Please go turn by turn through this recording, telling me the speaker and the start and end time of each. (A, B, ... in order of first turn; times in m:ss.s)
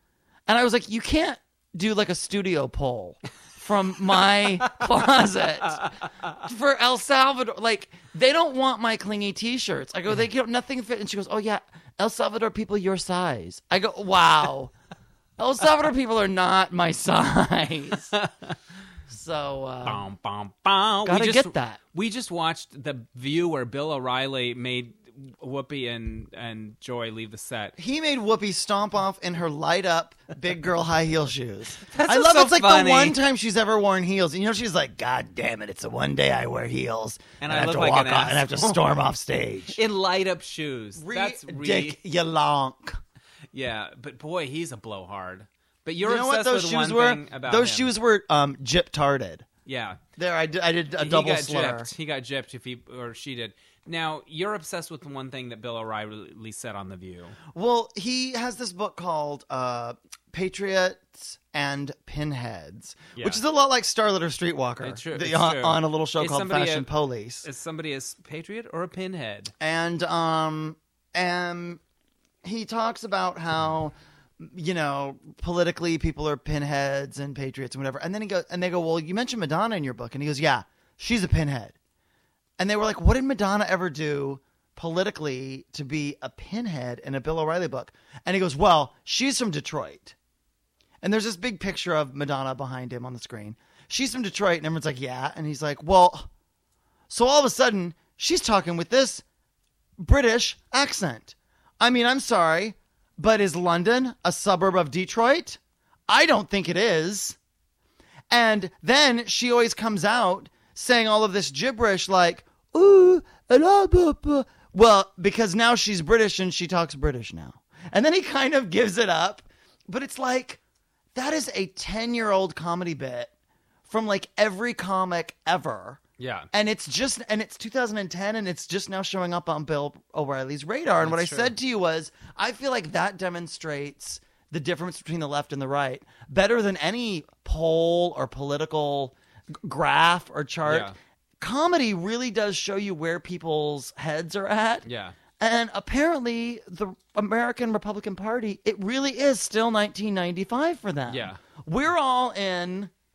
0:00.5-0:14.7 A
0:15.4-0:18.1 A
0:18.1-0:18.6 B
0:19.1-0:20.0 A
0:19.8-0:27.8 B
0:21.0-0:21.8 A
0:27.8-0:39.8 A
0:31.8-0:33.2 B
0:37.4-0:38.9 B
0:39.7-0:42.0 B
0:41.0-0:43.0 A
0:43.5-0:47.9 B
0:46.0-0:49.5 A
0:49.7-0:50.0 B
0:50.2-0:51.9 A
0:51.0-0:57.4 B
0:57.5-1:07.5 A
1:03.2-1:03.4 B
1:04.8-1:06.9 B
1:07.4-1:09.5 B
1:09.6-1:11.8 A
1:12.4-1:21.8 A
1:22.6-1:30.2 A
1:31.0-1:36.3 A
1:37.1-1:39.2 A
1:40.0-1:47.4 A
1:48.3-2:00.6 A
2:01.2-2:03.3 A
2:03.9-2:06.0 A
2:06.2-2:06.5 B
2:06.5-2:24.9 A
2:11.0-2:11.5 B
2:20.6-2:21.0 B
2:24.8-2:25.2 B
2:25.4-2:32.9 A
2:31.1-2:31.4 B